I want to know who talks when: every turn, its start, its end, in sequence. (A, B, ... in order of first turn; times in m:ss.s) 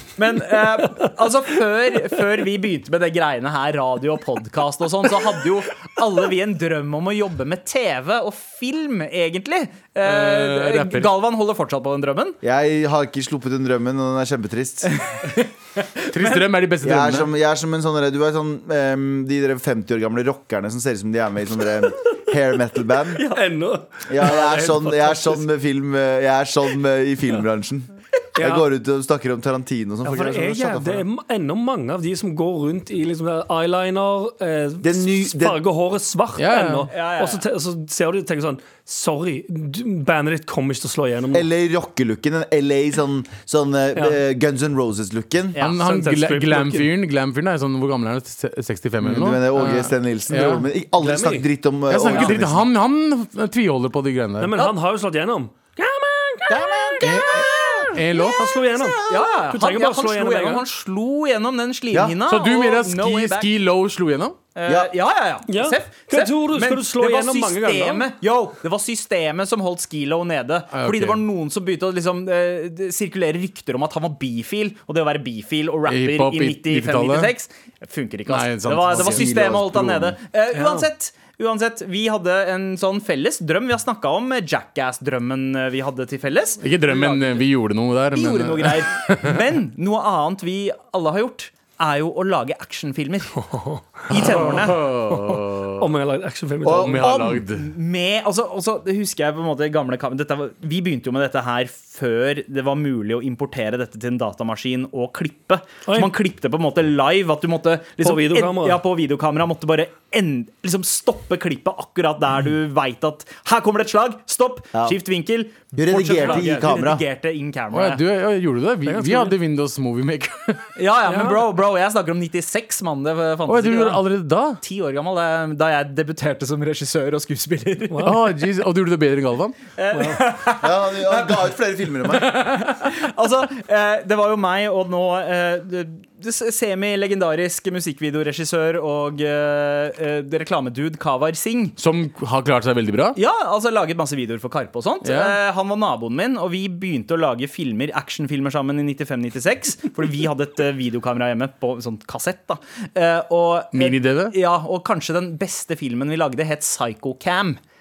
0:00.2-0:12.4 A
0:10.0-0:11.1 B
0:12.4-0:14.9 C
0:15.0-0:16.4 A
0:16.1-0:17.3 B
0:16.8-0:23.2 C
0:23.2-0:25.4 D
0:24.1-0:31.0 C
0:28.4-0:28.6 D
0:30.0-0:41.5 D
0:34.8-0:35.6 C
0:36.4-0:36.9 B
0:36.9-0:37.4 A
0:41.3-0:45.6 C
0:45.5-0:45.8 A
0:45.6-0:50.6 B
0:45.8-0:46.9 D
0:49.0-0:52.6 C
0:51.0-0:51.4 D
0:51.9-0:54.6 B
0:54.4-0:57.0 D
0:56.5-0:58.0 C
0:57.0-0:58.5 B
0:58.4-1:00.6 D
0:58.8-0:59.2 C
0:59.1-1:03.5 A
1:01.9-1:02.2 C
1:02.3-1:04.4 B
1:04.5-1:27.4 A
1:05.5-1:08.1 D
1:10.7-1:11.2 B
1:15.9-1:17.3 B
1:18.3-1:19.6 B
1:18.9-1:20.1 C
1:20.5-1:20.8 D
1:26.6-1:29.4 B
1:28.1-1:33.3 A
1:33.4-1:34.4 D
1:34.1-1:34.8 A
1:34.1-1:35.9 B
1:35.8-1:37.2 D
1:36.6-1:37.4 C
1:36.6-1:37.6 B
1:37.4-1:58.0 A
1:45.9-1:46.1 D
1:48.0-1:48.8 D
1:55.7-1:57.0 C
1:57.7-2:00.6 B
1:58.8-1:59.3 D
2:00.8-2:04.0 A
2:01.1-2:01.4 D
2:03.5-2:04.6 B
2:04.6-2:08.1 A
2:07.9-2:08.2 D
2:08.0-2:09.6 B
2:09.8-2:11.5 A
2:09.9-2:10.2 D
2:10.6-2:12.4 C
2:12.3-2:21.8 A
2:21.8-2:23.2 B
2:23.2-2:37.6 A
2:25.0-2:25.4 B
2:33.7-2:34.3 B